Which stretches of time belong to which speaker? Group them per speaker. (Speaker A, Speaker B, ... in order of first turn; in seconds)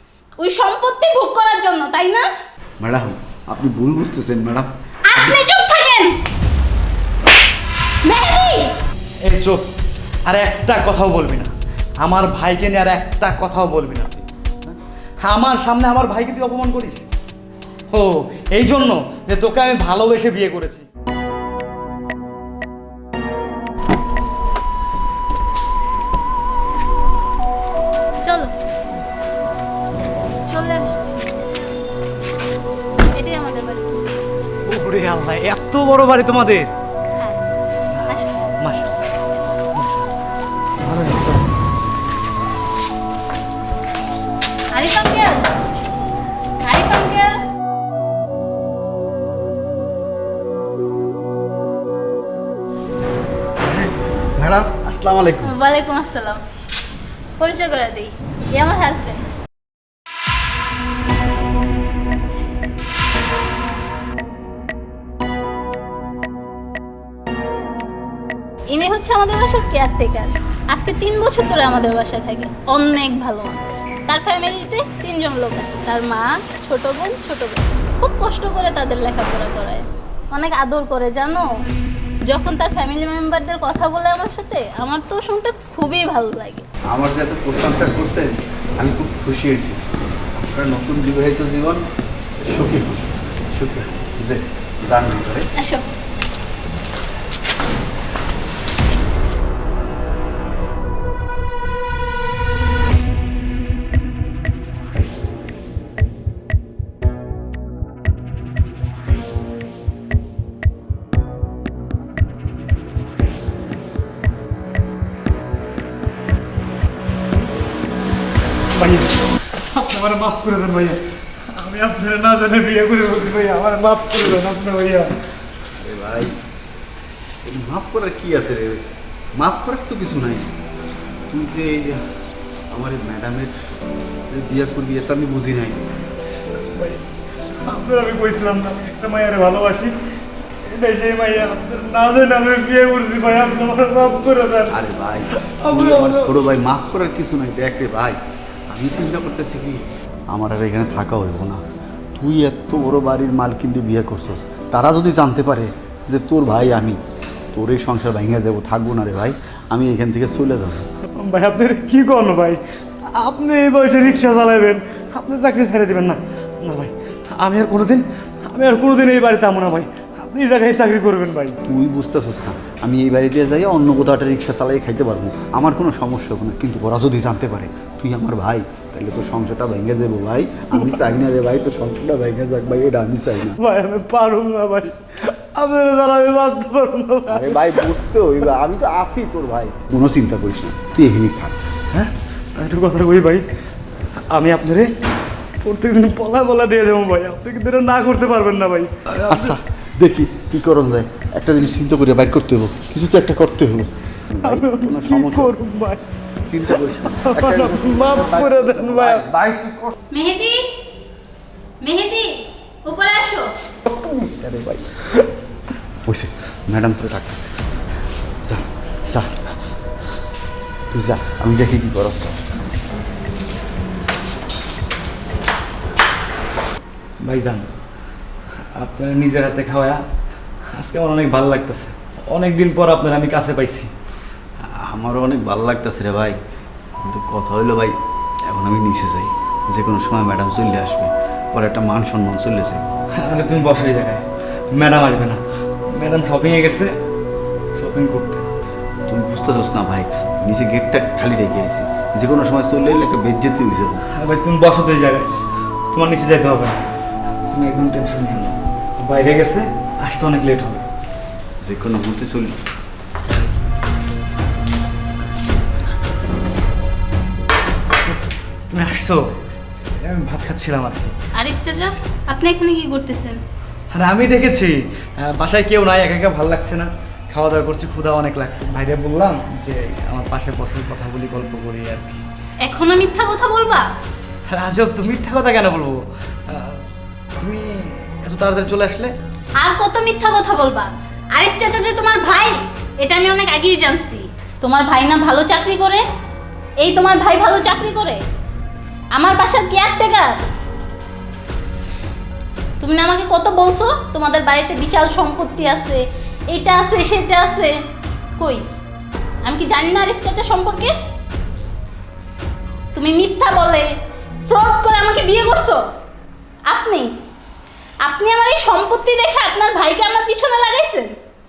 Speaker A: 0.4-2.3, 5.1-6.2, 8.1-8.7, 28.2-28.5, 30.5-31.3, 33.1-34.1, 38.1-38.5, 44.7-45.5, 46.6-47.4, 55.4-56.4, 57.4-59.2, 68.7-81.5, 82.3-86.7, 95.6-95.8, 210.1-210.7, 211.8-213.5, 271.3-273.4, 282.6-283.9, 289.6-296.0, 296.8-298.2, 299.1-300.5, 302.8-307.8, 308.4-308.6, 309.4-310.9, 312.9-313.9, 314.5-315.8, 316.7-317.1, 318.0-321.1
Speaker B: 2.8-5.4, 53.6-55.5, 86.9-89.8, 90.3-91.8, 92.4-95.5, 125.8-126.4, 127.5-128.8, 129.4-130.5, 131.3-132.0, 132.7-133.6, 134.3-135.8, 144.7-148.2, 148.7-151.6, 152.2-157.0, 157.5-160.8, 171.7-183.6, 187.3-191.6, 199.2-205.6, 206.5-209.9, 213.9-214.8, 216.1-217.5, 218.4-219.4, 220.9-222.4, 234.7-236.4, 237.0-238.0, 238.5-242.9, 249.1-254.0, 261.6-262.6
Speaker C: 9.2-9.7, 10.3-14.3, 15.2-17.1, 17.9-20.9, 34.7-36.7, 37.9-39.0, 39.8-40.1, 40.8-41.5, 118.8-119.1, 119.7-125.1, 136.7-137.1, 137.7-140.0, 140.7-144.8, 145.3-146.5, 161.2-162.6, 163.1-171.6, 180.8-181.1, 183.6-187.9, 191.9-193.5, 194.3-194.9, 195.6-199.6, 204.4-206.0, 206.7-209.3, 227.2-227.7, 228.8-230.0, 230.7-233.9, 243.1-246.9, 247.8-248.4, 254.1-255.3, 255.9-256.8, 257.5-260.9, 268.0-269.2, 270.0-271.1, 273.9-282.2, 284.5-286.8, 287.4-289.1